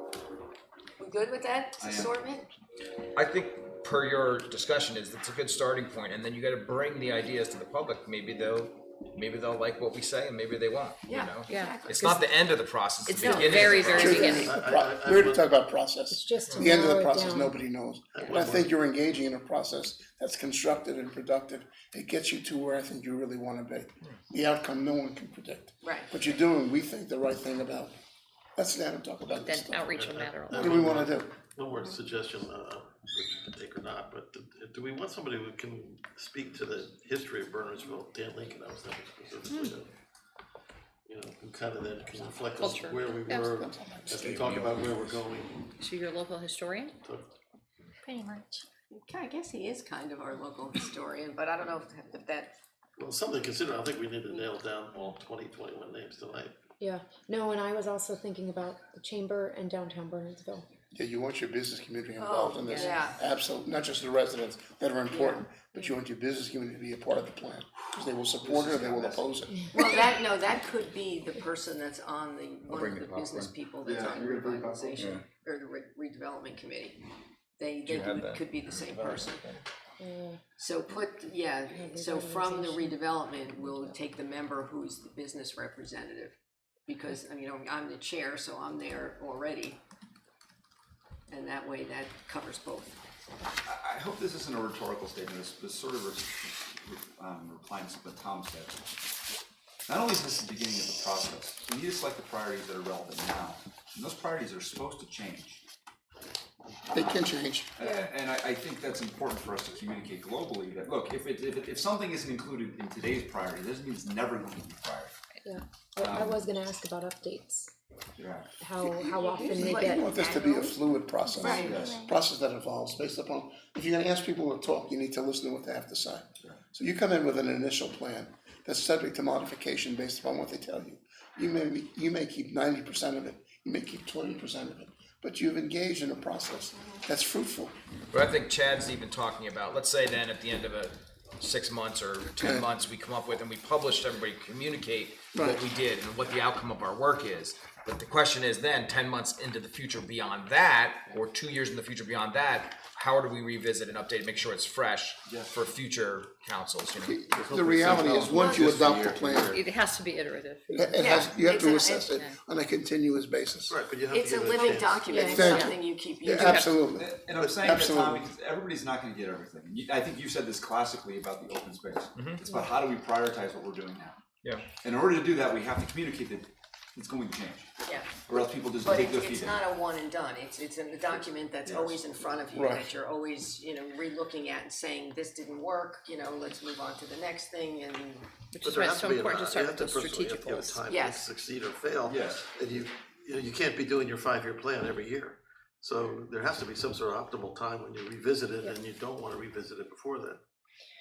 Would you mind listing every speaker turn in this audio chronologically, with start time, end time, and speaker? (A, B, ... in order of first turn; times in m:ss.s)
0:01.0-0:02.5 A
0:01.8-0:02.2 B
0:03.2-0:14.4 C
0:11.1-0:12.2 A
0:11.5-0:11.8 D
0:13.1-0:14.0 A
0:13.2-0:14.5 D
0:13.7-0:15.5 E
0:14.0-0:28.0 F
0:16.1-0:17.6 G
0:18.1-0:18.7 E
0:25.8-0:26.1 A
0:28.6-0:30.0 F
0:29.4-0:30.9 D
0:29.9-0:39.9 E
0:30.5-0:31.4 F
0:39.5-0:39.8 D
0:41.1-0:45.7 E
0:42.6-0:43.5 D
0:43.4-0:45.1 F
0:45.8-0:47.0 D
0:47.0-0:47.3 E
0:48.1-0:48.5 D
0:48.9-0:52.6 A
0:53.0-0:56.6 E
0:56.8-1:00.7 G
1:00.9-1:10.0 F
1:02.2-1:03.2 A
1:02.6-1:03.0 D
1:05.1-1:05.4 A
1:08.4-1:09.3 B
1:09.7-1:19.4 A
1:12.7-1:15.2 C
1:13.9-1:14.6 B
1:17.8-1:19.6 C
1:20.0-1:20.4 G
1:20.6-1:29.8 A
1:21.7-1:24.0 G
1:31.3-1:33.0 A
1:33.6-1:38.9 B
1:39.9-1:45.6 B
1:46.9-1:47.8 F
1:46.9-1:55.2 B
1:55.4-1:57.7 G
1:56.0-1:56.4 B
1:58.2-1:58.5 B
1:58.6-2:00.0 G
1:58.8-2:17.7 F
1:59.2-2:01.9 A
2:01.3-2:01.6 G
2:01.5-2:02.0 B
2:18.1-2:37.2 C
2:22.4-2:22.7 F
2:25.3-2:25.6 F
2:35.3-2:35.6 B
2:37.0-2:39.6 F
2:37.3-2:39.6 E
2:37.6-2:39.2 B
2:39.5-2:41.2 D
2:40.7-2:43.8 F
2:41.0-2:42.1 A
2:42.1-2:42.4 D
2:43.7-2:45.2 E
2:44.1-2:46.8 A
2:45.1-2:45.6 G
2:45.2-2:48.2 F
2:45.4-2:46.8 D
2:46.9-2:54.2 B
2:47.3-2:48.2 E
2:52.2-2:52.4 C
2:54.4-2:54.7 C
2:54.8-2:57.7 B
2:57.8-2:58.3 A
2:58.3-2:59.6 B
2:58.8-3:08.5 A
3:01.7-3:02.0 B
3:02.5-3:02.9 F
3:08.5-3:10.8 D
3:08.6-3:20.4 E
3:10.9-3:11.2 A
3:12.0-3:12.5 B